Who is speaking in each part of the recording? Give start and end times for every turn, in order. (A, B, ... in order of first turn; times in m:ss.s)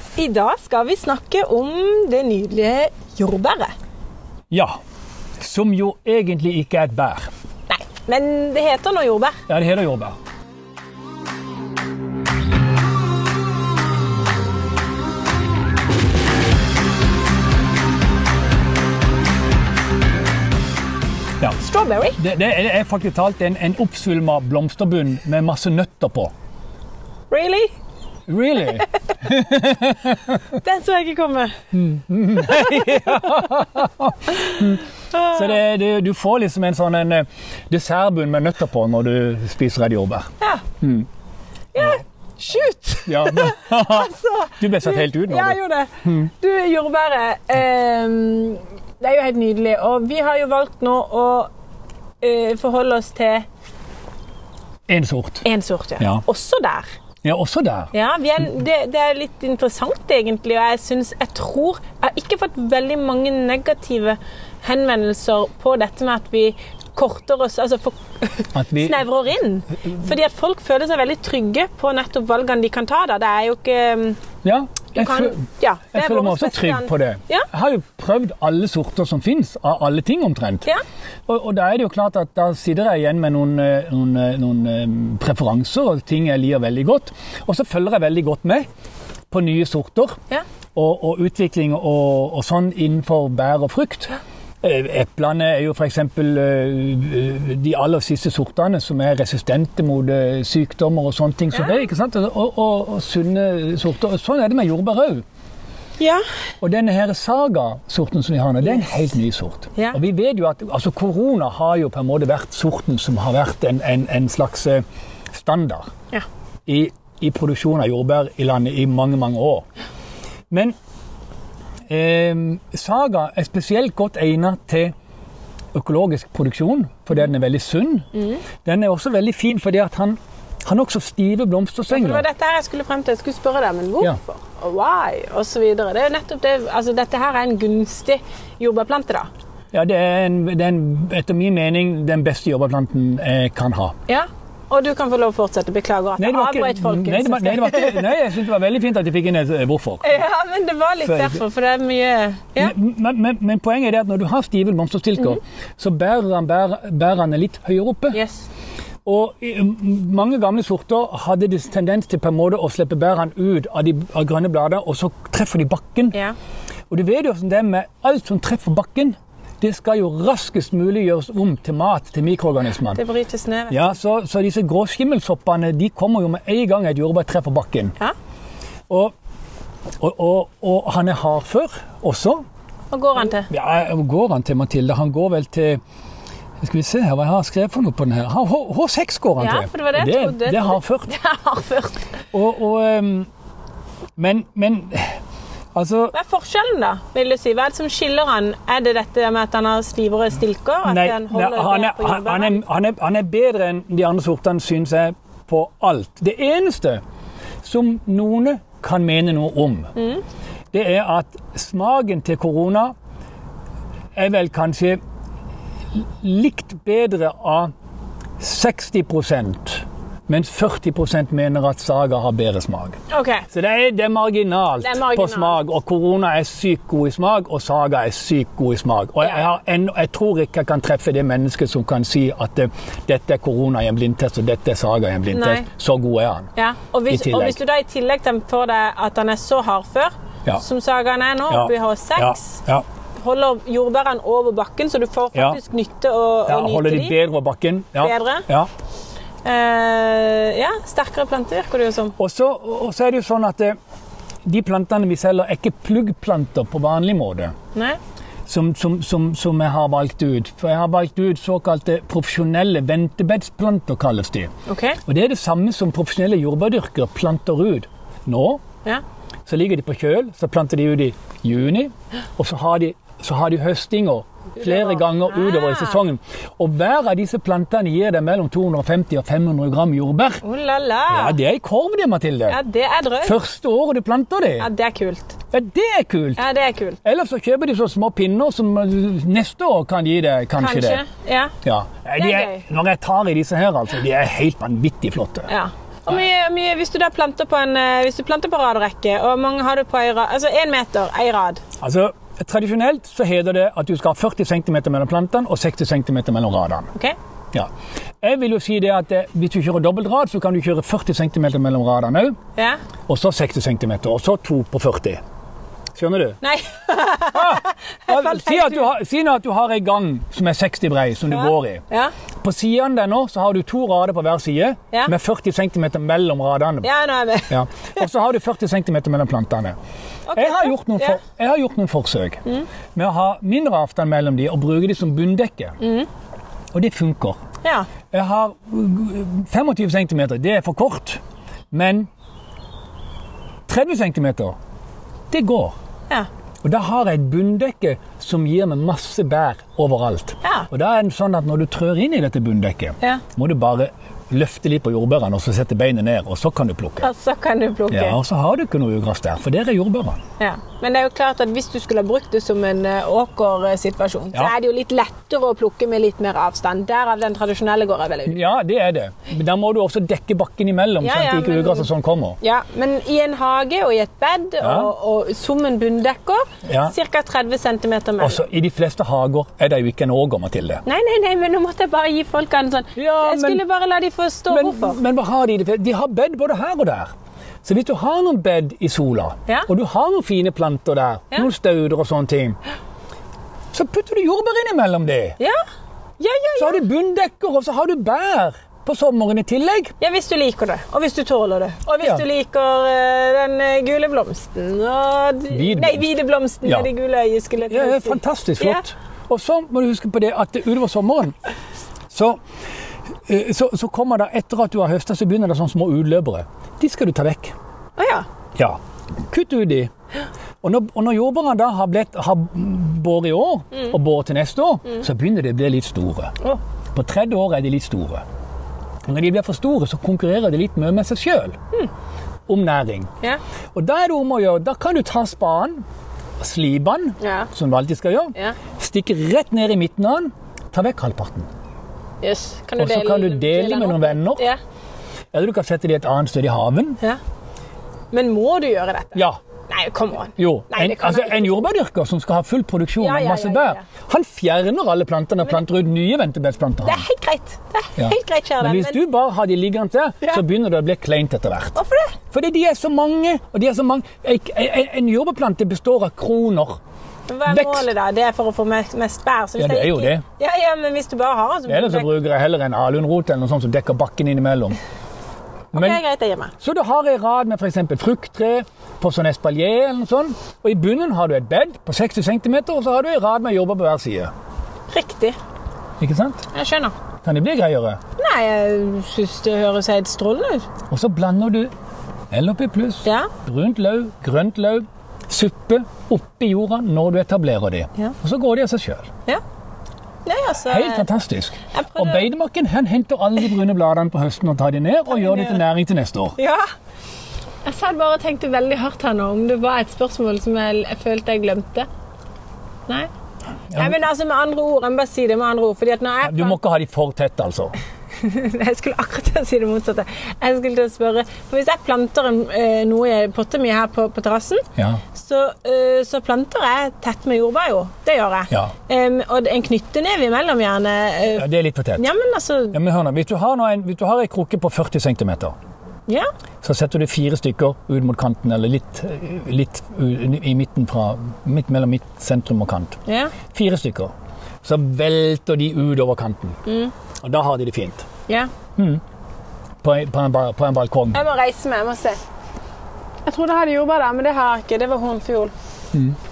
0:00.2-0:03.7 A
0:04.5-0:04.8 B
0:05.4-0:07.3 B
0:07.7-0:09.4 A
0:09.5-0:10.2 B
0:21.6-0:22.2 A
0:22.2-0:26.3 B
0:27.3-0:27.7 A
0:28.3-0:30.2 B
0:30.5-0:31.6 A
0:31.7-0:40.3 B
0:32.4-0:33.1 A
0:34.2-0:35.6 A
0:40.8-0:41.1 B
0:41.7-0:51.5 A
0:43.1-0:46.3 B
0:52.2-0:53.5 A
0:54.9-0:55.5 B
0:55.4-0:56.9 A
0:56.0-0:56.2 B
0:57.2-0:57.9 B
0:57.9-1:14.2 A
1:08.5-1:09.1 B
1:14.4-1:20.7 B
1:14.9-1:17.5 A
1:21.3-1:28.7 B
1:29.3-1:30.2 B
1:30.8-1:45.2 B
1:46.6-1:54.8 B
1:55.3-1:55.9 B
1:56.7-1:59.6 B
2:00.5-2:00.8 B
2:01.9-2:04.9 B
2:05.7-2:08.1 B
2:08.2-2:08.4 A
2:08.6-2:12.2 B
2:11.9-2:19.3 A
2:19.7-2:24.0 B
2:24.1-2:28.2 A
2:26.2-2:30.2 B
2:30.0-2:32.7 A
2:31.0-2:31.4 B
2:32.6-2:38.2 B
2:38.1-2:38.5 A
2:39.0-2:46.2 B
2:46.9-2:53.0 B
2:52.9-2:53.9 A
2:53.7-2:58.0 B
2:58.9-2:59.1 B
3:00.0-3:02.4 B
3:02.9-3:03.5 A
3:03.4-3:05.8 B
3:06.6-3:11.1 B
3:09.4-3:12.0 A
3:12.3-3:13.3 B
3:14.2-3:15.2 B
3:15.7-3:16.1 B
3:16.1-3:22.6 A
3:20.9-3:27.0 B
3:27.6-3:29.9 B
3:30.0-3:30.2 A
3:30.7-3:32.9 B
3:34.2-3:35.0 B
3:36.0-3:37.7 B
3:38.4-3:43.0 B
3:43.1-3:43.5 A
3:43.5-3:56.5 B
3:44.8-3:45.6 A
3:55.3-3:55.7 A
3:56.6-4:02.6 A
3:57.1-3:57.6 B
4:01.5-4:02.8 B
4:03.2-4:07.2 A
4:05.3-4:05.6 B
4:06.5-4:08.7 B
4:08.0-4:08.5 A
4:09.4-4:12.2 A
4:12.2-4:13.8 B
4:14.4-4:17.5 B
4:18.5-4:24.5 B
4:24.7-4:25.0 A
4:25.1-4:28.6 B
4:29.5-4:40.4 B
4:34.6-4:36.0 A
4:40.4-4:41.4 A
4:41.1-4:42.6 B
4:42.5-4:43.4 A
4:43.2-4:44.7 B
4:44.6-4:45.4 A
4:45.5-4:46.4 B
4:46.4-4:47.0 A
4:47.0-4:51.0 B
4:50.6-4:51.5 A
4:51.6-4:55.5 B
4:52.2-4:52.6 A
4:55.5-5:01.6 A
5:01.8-5:06.9 B
5:08.2-5:12.4 B
5:13.1-5:15.2 B
5:16.0-5:16.4 B
5:16.4-5:18.9 A
5:17.3-5:21.8 B
5:21.3-5:22.1 A
5:22.4-5:26.9 B
5:26.8-5:27.6 A
5:27.5-5:29.8 B
5:30.3-5:31.2 A
5:30.4-5:32.4 B
5:33.0-5:35.8 B
5:35.8-5:36.1 A
5:36.7-5:37.4 B
5:37.6-5:37.9 A
5:38.1-5:41.2 B
5:41.7-5:42.1 B
5:43.7-5:44.6 B
5:45.3-5:45.8 B
5:46.6-5:57.1 B
5:57.0-5:58.2 A
5:57.9-6:00.2 B
6:00.4-6:08.4 A
6:08.3-6:12.4 B
6:11.0-6:18.4 A
6:14.6-6:14.9 B
6:16.6-6:16.9 B
6:18.2-6:20.8 B
6:20.9-6:25.0 A
6:23.0-6:23.6 B
6:24.5-6:27.1 B
6:27.6-6:32.6 B
6:33.7-6:35.4 B
6:36.2-6:36.8 A
6:36.6-6:39.9 B
6:40.0-6:48.8 A
6:45.5-6:46.1 B
6:47.7-6:51.4 B
6:52.1-6:52.4 B
6:53.3-6:57.6 B
6:58.0-6:58.3 A
6:59.3-6:59.9 B
7:00.6-7:06.3 B
7:06.9-7:08.2 B
7:09.1-7:11.6 B
7:12.5-7:13.1 B
7:13.7-7:15.8 B
7:16.4-7:21.5 B
7:17.2-7:17.5 A
7:22.2-7:24.6 A
7:22.8-7:24.5 B
7:25.3-7:27.0 B
7:28.1-7:31.7 A
7:30.4-7:37.1 B
7:33.0-7:33.8 A
7:36.8-7:39.0 A
7:38.0-7:41.8 B
7:41.8-7:42.2 A
7:42.3-7:46.8 B
7:47.3-7:52.1 A
7:47.4-7:47.9 B
7:49.6-7:50.2 B
7:51.7-7:54.8 B
7:55.7-7:56.5 A
7:55.7-7:56.0 B
7:56.6-8:04.3 B
8:04.9-8:05.4 A
8:06.0-8:06.4 B
8:06.5-8:06.9 A
8:07.2-8:08.0 B
8:08.2-8:10.7 A
8:10.9-8:11.7 B
8:12.3-8:19.1 B
8:13.0-8:13.3 A
8:20.2-8:21.1 A
8:20.7-8:26.4 B
8:21.7-8:22.2 A
8:25.1-8:25.6 A
8:26.4-8:26.6 A
8:27.6-8:31.9 A
8:33.7-8:36.6 A
8:36.2-8:37.8 B
8:38.2-8:52.8 A
8:44.8-8:45.0 B
8:51.3-8:52.0 B
8:52.7-8:55.5 B
8:56.6-9:03.0 B
9:03.1-9:03.4 A
9:03.5-9:04.1 B
9:04.6-9:06.6 B
9:06.7-9:06.9 A
9:07.2-9:08.1 B
9:09.8-9:11.2 B
9:11.1-9:12.2 A
9:13.3-9:15.5 A